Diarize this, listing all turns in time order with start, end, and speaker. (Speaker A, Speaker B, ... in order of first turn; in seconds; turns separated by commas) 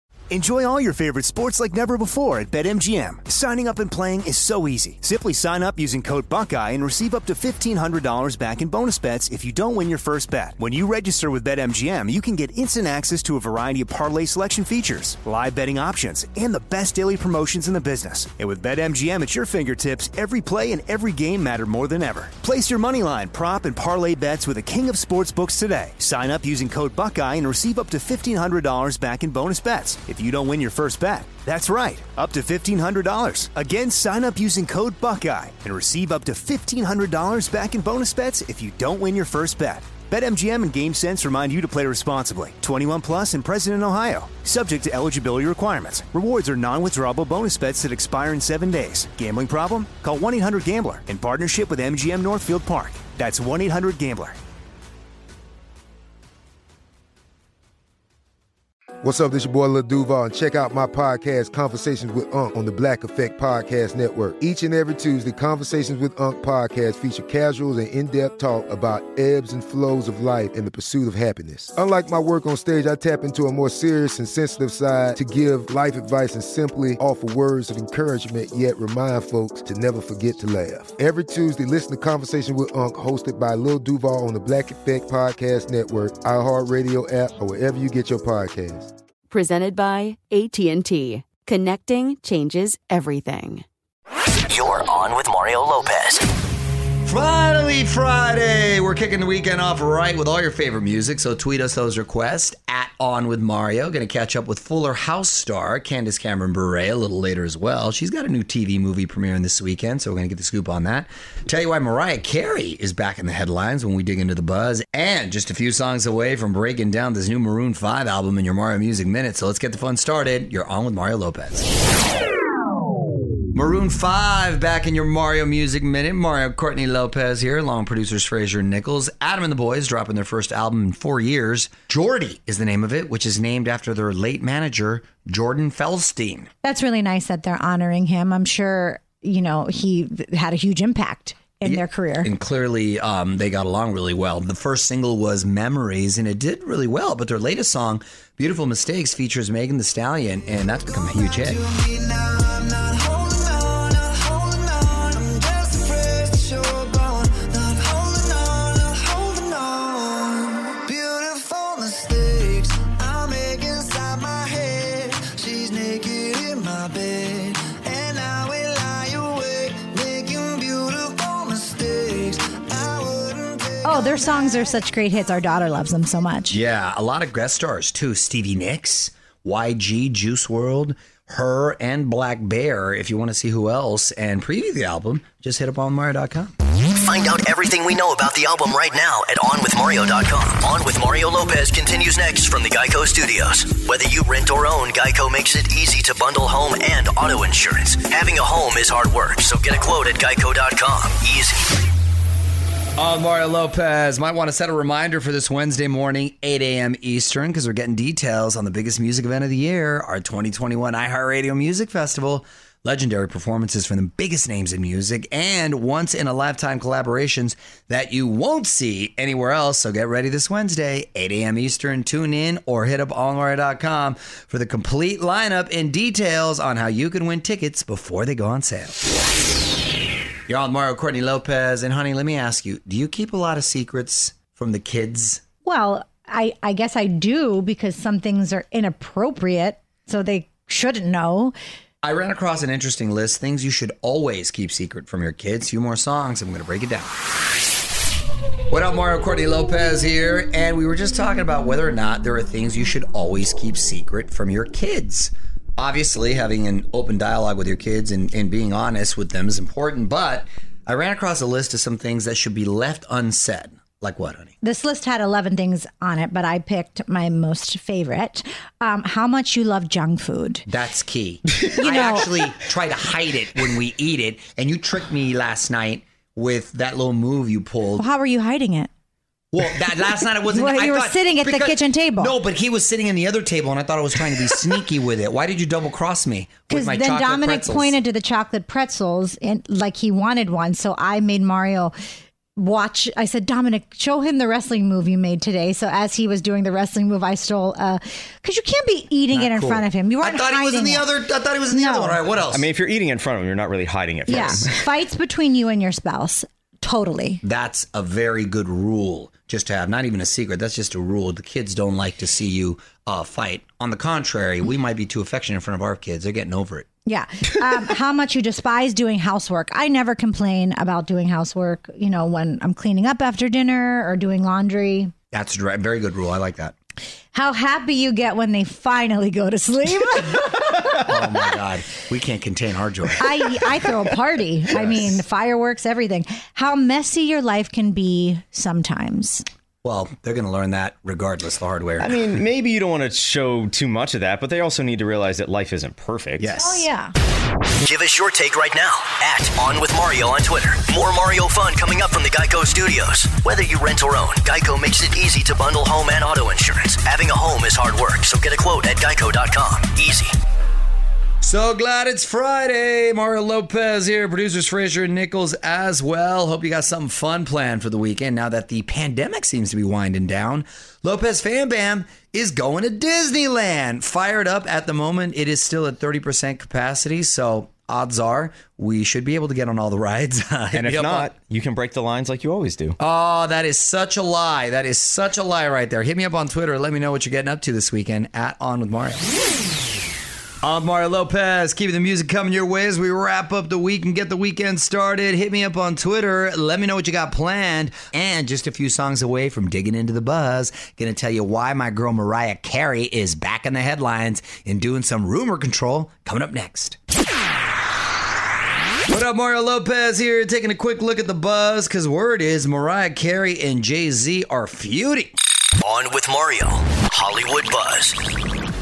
Speaker A: 0.3-54.4, Speaker B: 59.0-88.9, Speaker C: 89.3-93.6, Speaker D: 94.5-96.2, Speaker E: 97.0-121.7, Speaker E: 123.5-136.5, Speaker F: 136.6-142.3, Speaker E: 141.6-151.6, Speaker C: 150.9-174.8, Speaker F: 173.8-176.6, Speaker E: 176.5-186.5, Speaker D: 186.9-201.7, Speaker E: 203.0-229.0, Speaker E: 230.5-235.4, Speaker F: 235.6-241.5, Speaker E: 242.0-247.1, Speaker E: 248.7-264.5, Speaker F: 264.6-270.6, Speaker E: 270.7-278.1, Speaker F: 271.8-272.5, Speaker F: 278.0-278.9, Speaker E: 279.5-287.9, Speaker F: 280.5-282.3, Speaker F: 286.7-291.9, Speaker F: 292.6-301.1, Speaker E: 299.3-302.7, Speaker F: 301.7-302.2, Speaker G: 302.5-304.7, Speaker F: 304.3-307.4, Speaker E: 307.4-316.9, Speaker F: 317.1-325.1, Speaker E: 325.3-326.7, Speaker F: 327.3-331.0, Speaker E: 331.1-333.3, Speaker F: 333.2-339.4, Speaker E: 334.7-335.1, Speaker E: 339.8-342.3, Speaker G: 342.0-346.5, Speaker E: 346.4-346.9, Speaker F: 346.5-347.1, Speaker D: 347.8-360.3, Speaker E: 361.4-381.3, Speaker G: 380.7-383.0, Speaker E: 383.0-389.3, Speaker E: 390.6-407.0, Speaker E: 409.1-415.3, Speaker D: 415.8-418.2